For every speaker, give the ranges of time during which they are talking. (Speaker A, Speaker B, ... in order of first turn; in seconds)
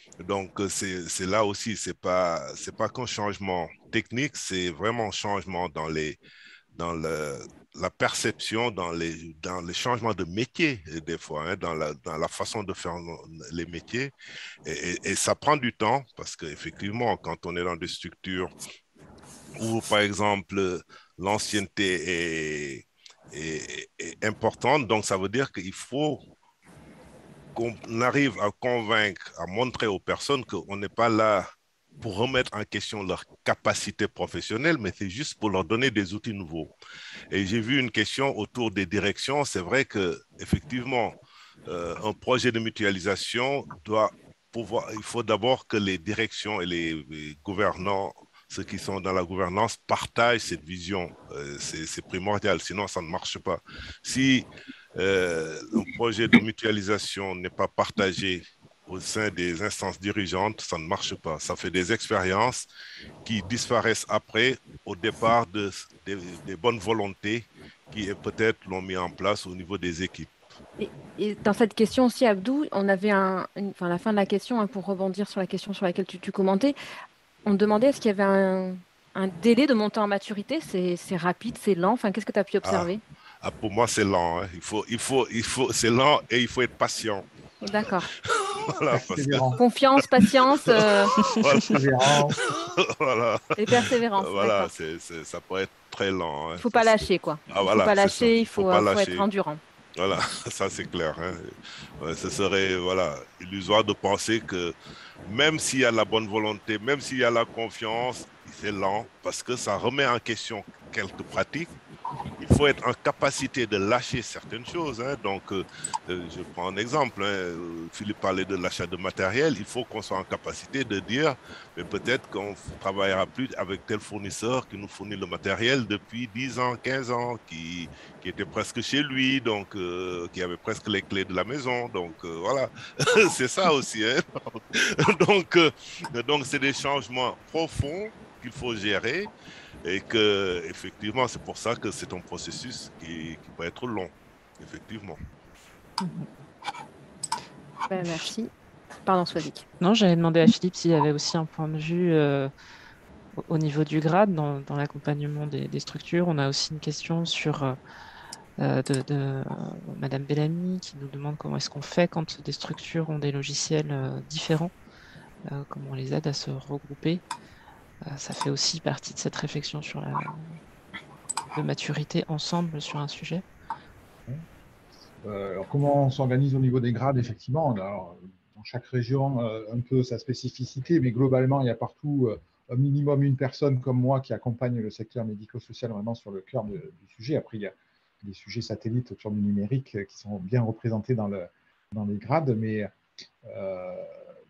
Speaker A: 0.2-6.2, 6.8-14.1, 14.7-18.5, 19.6-26.2, 27.6-31.5, 32.0-36.7, 37.3-62.7, 63.2-70.3, 82.6-82.9, 83.4-87.3, 88.3-89.6, 90.7-93.6, 94.1-99.2, 100.0-104.8, 105.3-111.8, 112.4-139.3, 139.8-145.2
Speaker B: 70.8-76.8, 77.5-83.0, 87.6-88.1, 89.6-91.1, 93.6-94.7, 96.6-99.6, 147.9-148.5, 149.1-149.7
Speaker C: 88.9-89.6, 91.6-92.4, 175.2-192.9, 193.4-194.1
Speaker D: 146.0-146.3, 147.9-148.3, 149.8-152.5, 153.4-157.8, 158.6-164.7, 165.5-167.2, 168.1-170.6, 171.6-173.4